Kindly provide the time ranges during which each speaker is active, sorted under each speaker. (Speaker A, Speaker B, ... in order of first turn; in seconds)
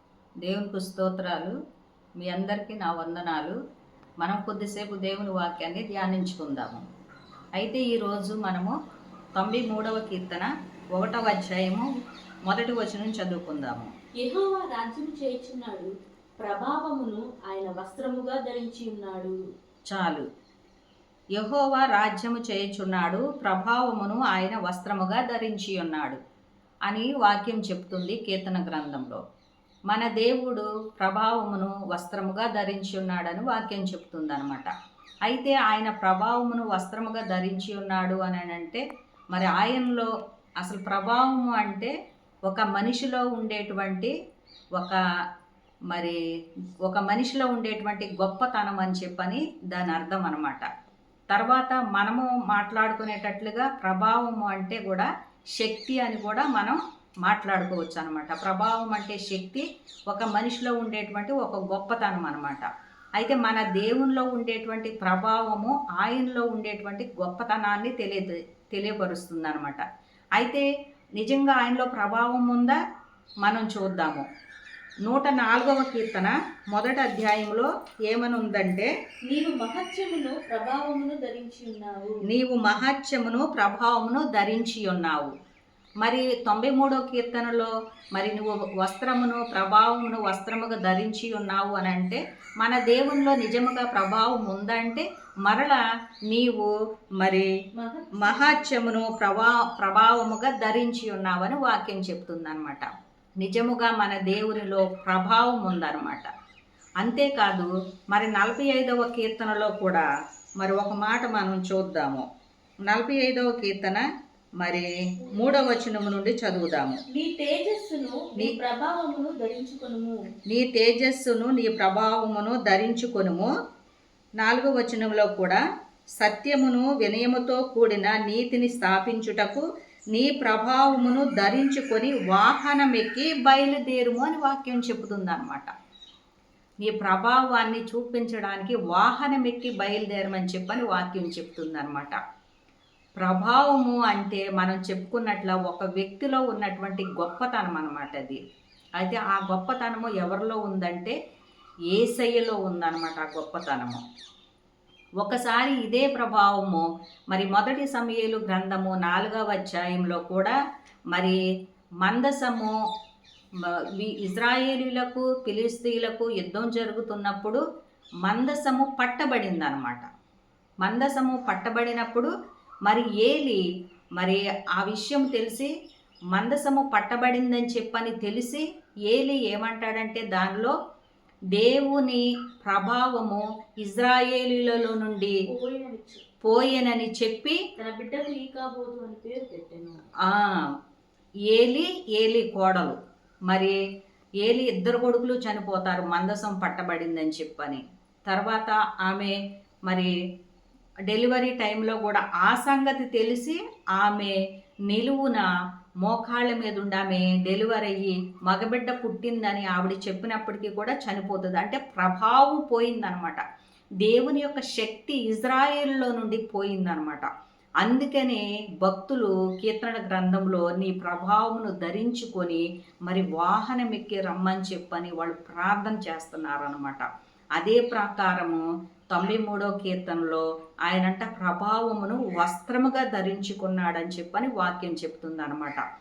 Speaker A: 0.4-1.6, 2.2-3.6, 4.2-6.8, 7.6-8.7, 9.4-11.9, 12.5-13.9, 19.9-20.3, 21.4-26.2, 26.9-29.2, 29.9-34.7, 35.3-41.9, 42.5-44.1, 45.9-46.2, 46.9-50.7, 51.3-69.8, 70.4-70.6, 71.2-72.8, 73.4-74.2, 75.1-78.9, 82.3-85.3, 86.0-97.5, 98.2-102.9, 103.4-106.3, 107.0-110.1, 110.6-112.2, 112.9-114.0, 114.6-117.0, 120.5-123.5, 124.4-125.6, 126.2-135.7, 136.8-142.2, 143.2-148.4, 149.0-151.2, 151.9-154.0, 155.2-160.6, 161.1-161.4, 162.0-162.7, 163.6-167.6, 168.2-170.1, 170.8-172.3, 172.9-173.6, 174.2-175.7, 176.3-180.7, 181.5-185.4, 186.4-187.6, 190.2-190.7, 191.5-193.0, 193.5-193.8, 194.4-199.4, 201.1-204.3, 204.9-205.5, 206.0-213.4, 214.0-217.3, 217.8-227.1, 227.6-235.8
Speaker B: 14.2-19.4, 79.3-82.2, 97.8-98.7, 117.1-120.2, 185.5-186.2, 187.8-190.0